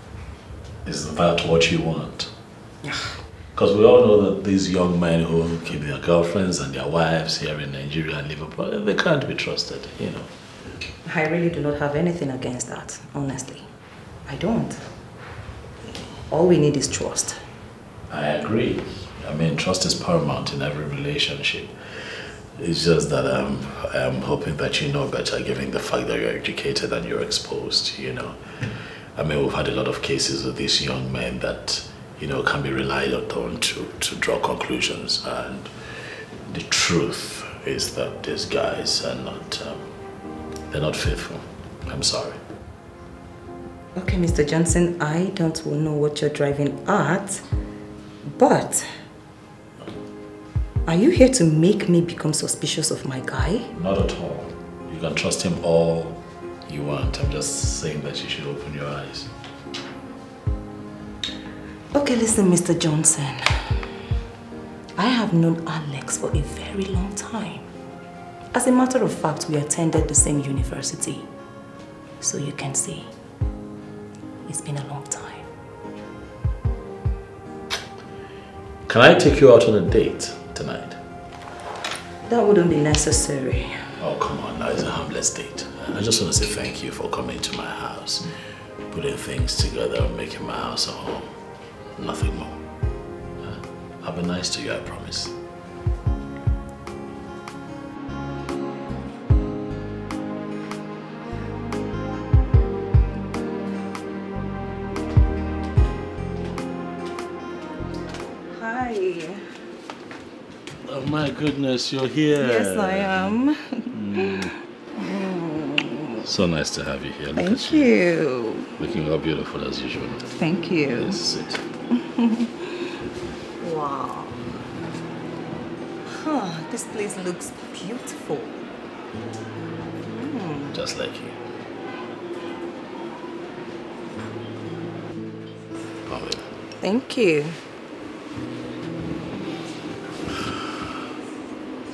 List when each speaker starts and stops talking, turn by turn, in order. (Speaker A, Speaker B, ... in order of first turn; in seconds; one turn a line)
Speaker A: 0.8-2.3
Speaker B: 2.8-3.2
Speaker A: 3.5-10.3
Speaker B: 11.1-13.7
Speaker B: 14.3-14.8
Speaker B: 16.3-17.4
Speaker A: 18.1-39.9
Speaker A: 40.7-42.4
Speaker B: 44.0-47.4
Speaker B: 48.2-48.9
Speaker B: 50.9-53.7
Speaker A: 53.7-59.3
Speaker B: 61.9-63.7
Speaker B: 65.0-67.7
Speaker B: 68.5-71.3
Speaker B: 72.2-73.1
Speaker B: 74.4-75.5
Speaker A: 78.9-81.0
Speaker B: 82.3-83.9
Speaker A: 84.0-88.3
Speaker A: 88.9-91.3
Speaker A: 92.0-92.6
Speaker A: 93.4-95.4
Speaker B: 108.5-109.5
Speaker A: 110.8-113.4
Speaker B: 112.3-114.4
Speaker A: 113.9-114.5
Speaker B: 115.0-116.2
Speaker A: 116.2-117.9
Speaker B: 117.3-118.7
Speaker A: 118.8-121.6
Speaker B: 120.3-121.2
Speaker B: 122.0-122.7
Speaker B: 123.6-124.4
Speaker B: 126.1-128.6
Speaker B: 130.2-130.7
Speaker A: 130.7-131.4
Speaker A: 136.1-136.5
Speaker B: 136.8-137.6